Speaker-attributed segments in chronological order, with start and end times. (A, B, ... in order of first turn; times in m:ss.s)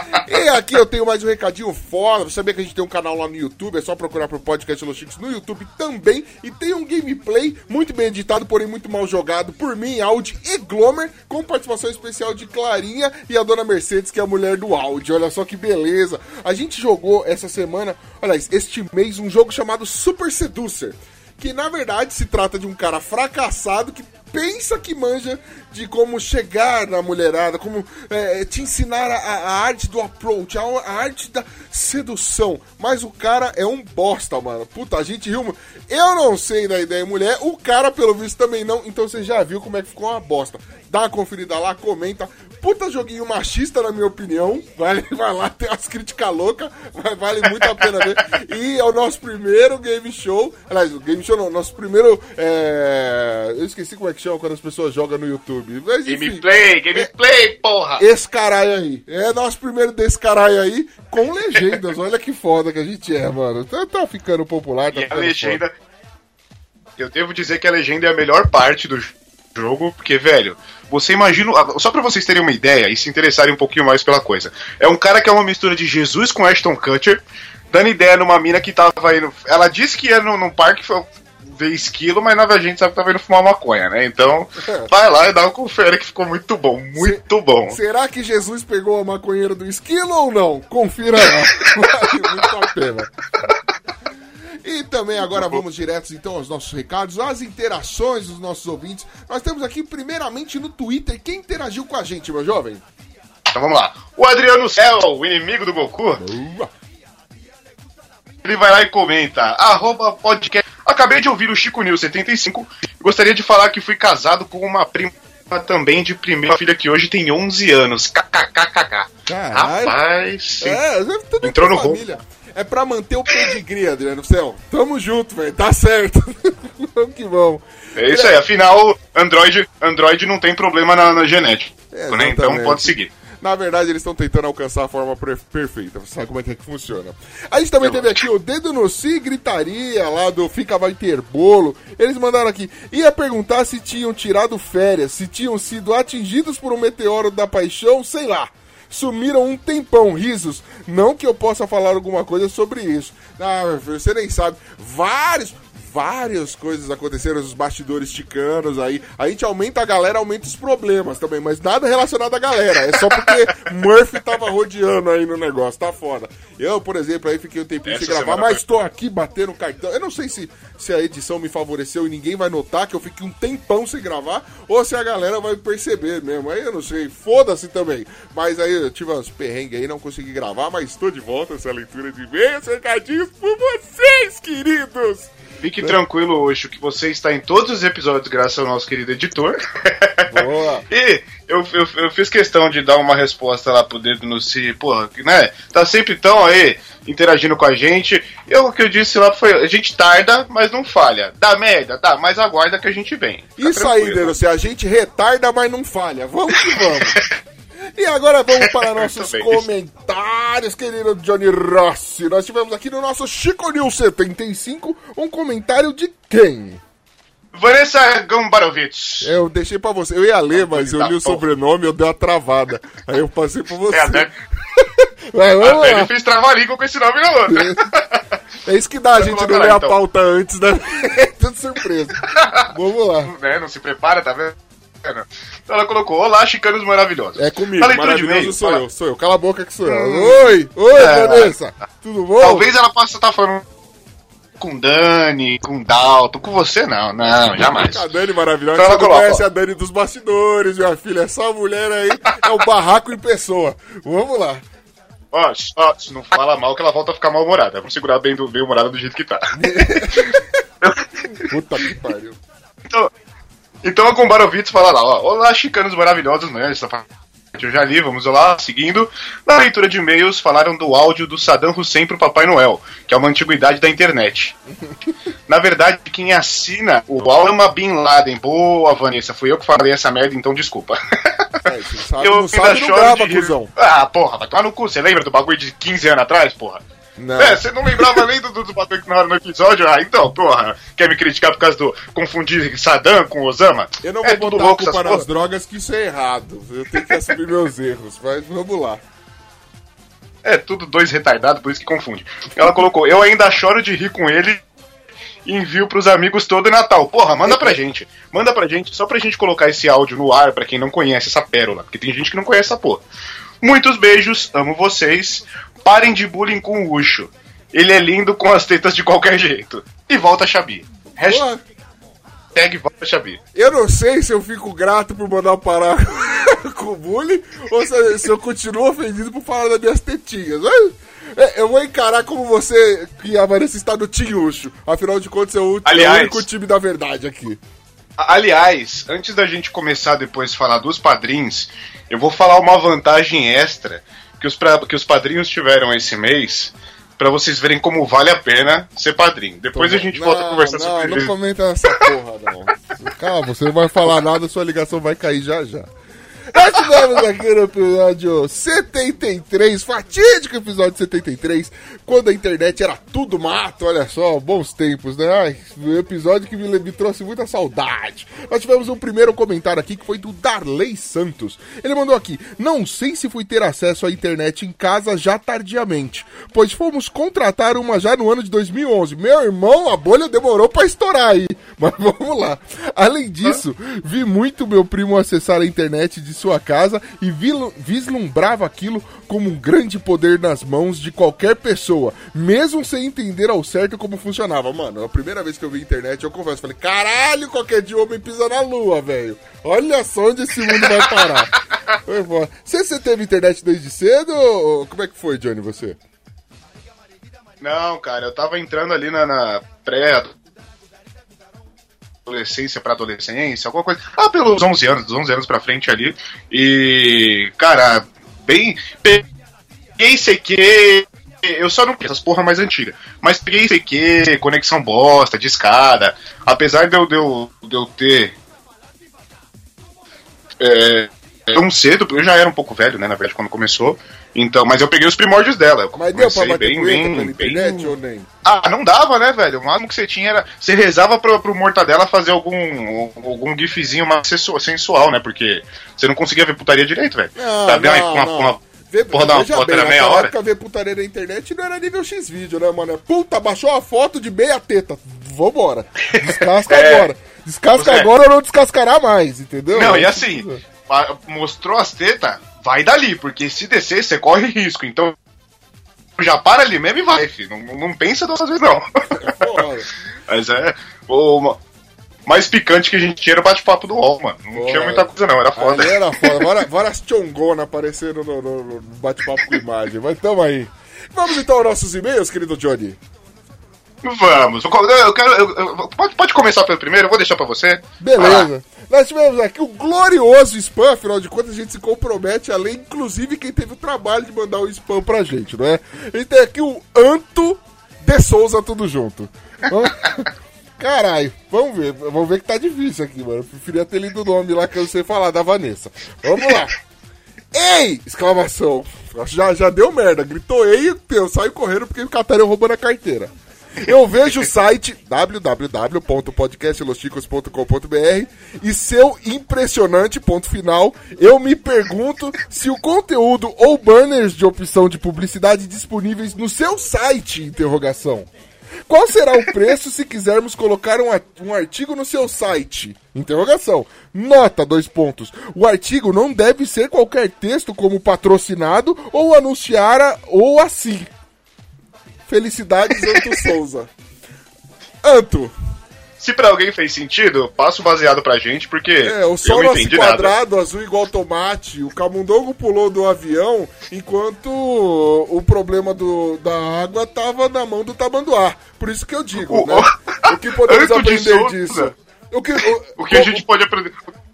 0:00.2-0:57.1 A
0:56.0-0:58.0 B
0:58.0-1:05.6 A
1:04.9-1:05.7 B
1:07.0-1:17.2 B
1:17.7-1:27.8 B
1:27.0-1:33.1 A
1:34.6-1:42.8 A
1:35.3-1:35.6 B
1:43.5-1:46.2 B
1:46.2-1:46.7 A
1:48.4-2:00.8 B
1:59.3-2:00.0 A
2:00.6-2:08.3 A
2:01.4-2:02.0 B
2:08.0-2:13.1 B
2:11.9-3:06.0 A
2:17.8-2:18.1 B
2:47.8-2:48.6 B
3:05.6-3:24.3 B
3:10.3-3:10.8 A
3:23.6-3:27.2 A
3:26.6-3:27.2 B
3:27.9-3:36.8 A
3:28.6-3:29.6 B
3:37.5-3:39.3 B
3:39.2-3:46.1 A
3:40.5-3:41.4 B
3:43.9-3:44.3 B
3:45.6-3:48.2 B
3:47.5-3:47.8 A
3:48.6-3:53.3 A
3:49.1-3:50.0 B
3:52.3-3:52.6 B
3:53.2-3:58.8 B
3:57.4-4:02.7 A
3:59.8-4:01.6 B
4:02.4-4:03.6 B
4:04.6-4:08.0 B
4:07.6-4:14.6 A
4:08.7-4:09.4 B
4:15.3-4:19.5 B
4:19.5-4:20.4 A
4:21.4-4:22.4 A
4:23.8-4:34.5 B
4:35.5-4:41.6 B
4:41.6-4:43.7 A
4:42.2-4:46.8 B
4:47.2-4:48.2 A
4:47.4-4:55.2 B
4:54.0-4:59.0 A
5:00.4-5:04.6 B
5:05.4-5:13.0 B
5:07.5-5:07.8 A
5:13.6-5:21.4 B
5:21.2-5:21.6 A
5:22.5-5:23.4 B
5:23.5-5:37.6 A
5:35.8-5:36.4 B
5:38.2-5:51.3 B
5:49.7-5:55.9 A
5:56.5-6:41.5 A
6:40.8-6:41.6 B
6:42.1-6:46.0 A
6:47.6-6:50.3 B
6:52.2-6:59.2 B
7:00.0-7:08.3 B
7:10.6-7:17.9 B
7:15.9-7:18.3 A
7:18.4-7:28.6 B
7:27.4-7:40.6 A
7:29.1-7:30.3 B
7:36.1-7:37.1 B
7:37.8-7:38.1 B
7:39.7-7:45.2 B
7:46.2-7:49.2 B
7:49.2-7:49.9 A
7:50.3-7:51.6 B
7:52.3-7:56.5 B
7:54.5-8:03.0 A
8:04.0-8:08.5 B
8:08.0-8:20.3 A
8:20.8-8:26.7 A
8:27.5-8:48.3 A
8:48.9-9:01.1 A
9:02.3-9:03.9 A
9:05.0-9:05.5 A
9:06.2-9:10.3 B
9:09.0-9:23.4 A
9:19.4-9:21.9 B
9:23.0-9:24.1 B